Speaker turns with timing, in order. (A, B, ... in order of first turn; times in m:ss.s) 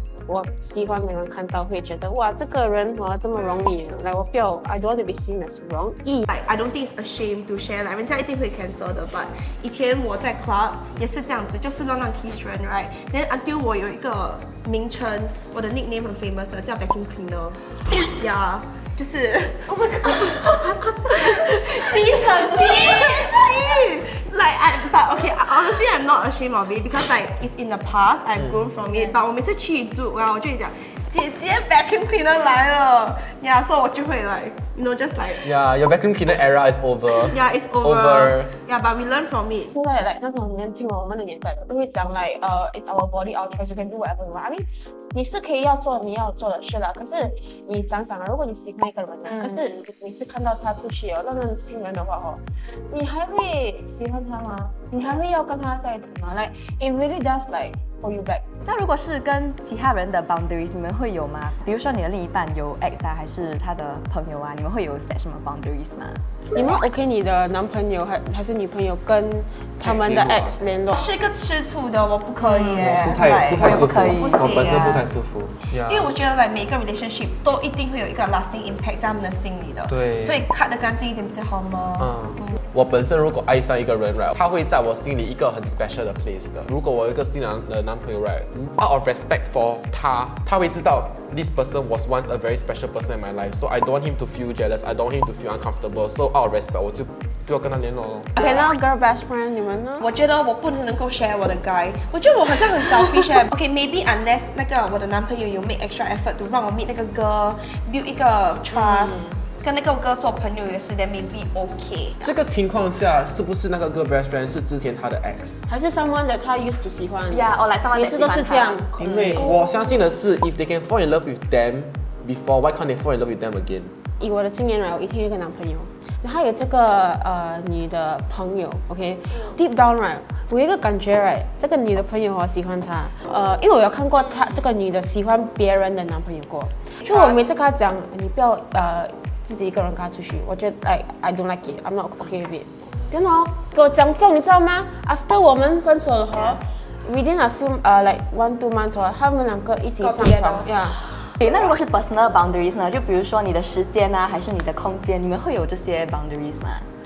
0:00.3-0:06.3 A
0:06.3-0:35.5 B
0:19.6-0:23.4 A
0:35.4-0:38.5 C
0:37.2-0:39.7 B
0:39.7-0:58.4 A
0:58.6-1:06.2 D
1:06.5-1:11.0 A
1:09.8-1:10.6 C
1:10.9-1:14.8 B
1:12.8-1:16.1 C
1:13.6-1:15.0 D
1:15.8-1:22.5 B
1:19.9-1:20.4 C
1:22.0-1:38.3 C
1:38.4-1:40.1 A
1:40.0-1:52.2 B
1:52.2-1:55.6 C
1:55.7-1:59.6 A
1:57.3-1:59.0 D
1:59.1-2:03.9 C
2:04.2-2:31.0 A
2:17.0-2:17.5 B
2:26.4-2:26.6 B
2:30.0-2:30.7 B
2:31.0-2:36.9 D